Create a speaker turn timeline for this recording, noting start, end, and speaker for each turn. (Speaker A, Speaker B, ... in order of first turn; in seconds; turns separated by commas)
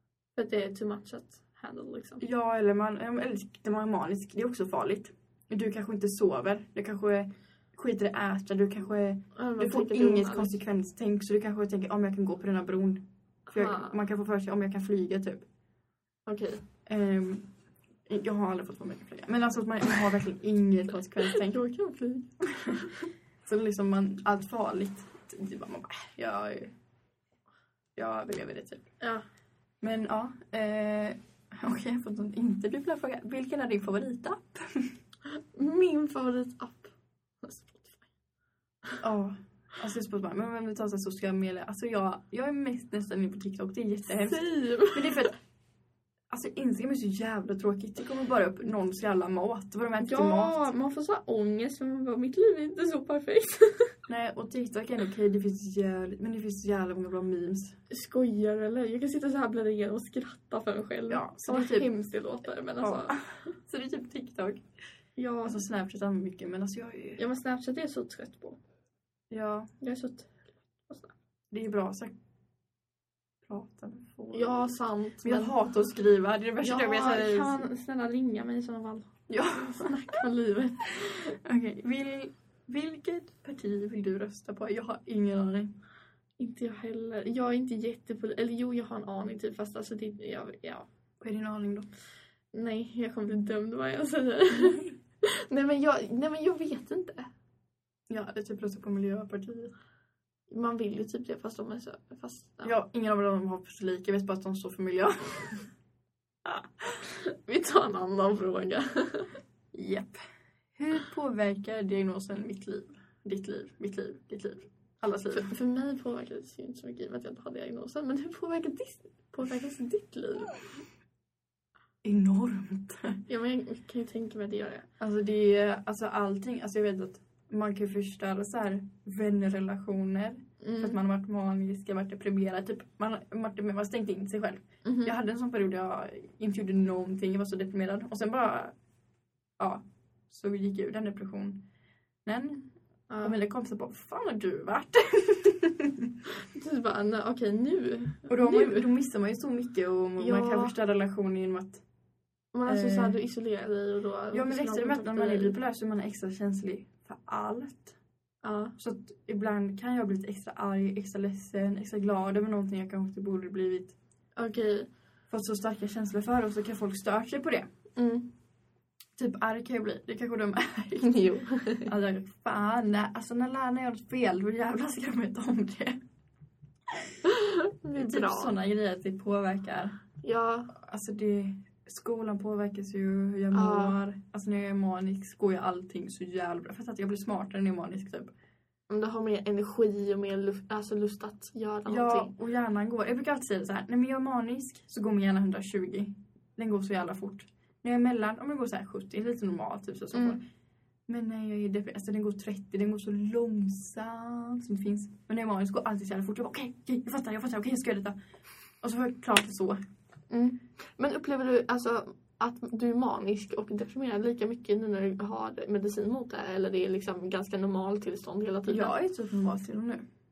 Speaker A: 0.3-2.2, Speaker B: 2.2-15.4, Speaker A: 9.3-10.5, Speaker A: 13.5-13.9, Speaker A: 16.2-16.6, Speaker B: 16.9-17.5, Speaker B: 18.1-21.6, Speaker A: 21.2-23.1, Speaker B: 22.5-22.9, Speaker B: 23.4-26.7, Speaker B: 28.0-28.9, Speaker B: 29.8-34.9, Speaker A: 35.3-38.1, Speaker B: 39.0-45.3, Speaker A: 44.1-45.3, Speaker B: 46.3-50.6, Speaker A: 50.0-54.0, Speaker B: 54.1-57.8, Speaker A: 57.9-63.1, Speaker B: 61.1-61.9, Speaker B: 62.8-64.6, Speaker A: 65.2-65.6, Speaker B: 65.4-67.2, Speaker A: 67.2-68.6, Speaker B: 69.3-69.7, Speaker A: 69.8-71.1, Speaker B: 71.5-72.1, Speaker B: 73.5-74.7, Speaker A: 74.3-75.5, Speaker B: 75.2-77.7, Speaker A: 76.6-81.4, Speaker B: 79.3-80.1, Speaker B: 81.1-85.7, Speaker A: 86.4-90.9, Speaker B: 91.2-91.9, Speaker A: 92.5-97.3, Speaker B: 98.1-99.7, Speaker A: 100.5-102.7, Speaker B: 102.6-105.6, Speaker A: 107.0-109.4, Speaker B: 109.7-110.2, Speaker B: 110.8-115.5, Speaker A: 115.3-120.6, Speaker B: 122.0-123.2, Speaker A: 123.3-124.9, Speaker B: 125.0-138.7, Speaker A: 130.6-131.0, Speaker A: 134.8-135.1, Speaker B: 139.6-141.6, Speaker B: 142.2-142.7, Speaker A: 143.1-143.4, Speaker B: 143.2-146.1, Speaker A: 146.4-148.9, Speaker B: 148.3-151.8, Speaker A: 150.2-150.7, Speaker A: 152.5-155.5, Speaker B: 152.7-153.2, Speaker B: 154.3-157.9, Speaker A: 158.4-158.7, Speaker B: 158.8-163.9, Speaker A: 164.4-164.9, Speaker B: 165.3-167.7, Speaker A: 167.9-168.3, Speaker B: 169.2-176.0, Speaker A: 171.0-171.9, Speaker A: 177.2-178.5, Speaker B: 177.9-180.0, Speaker A: 180.2-180.7, Speaker B: 180.7-188.3, Speaker A: 183.5-184.0, Speaker A: 188.9-192.3, Speaker B: 191.9-200.4, Speaker A: 200.1-200.4, Speaker B: 201.1-208.2, Speaker B: 208.8-209.8, Speaker A: 210.3-218.9, Speaker B: 218.7-220.0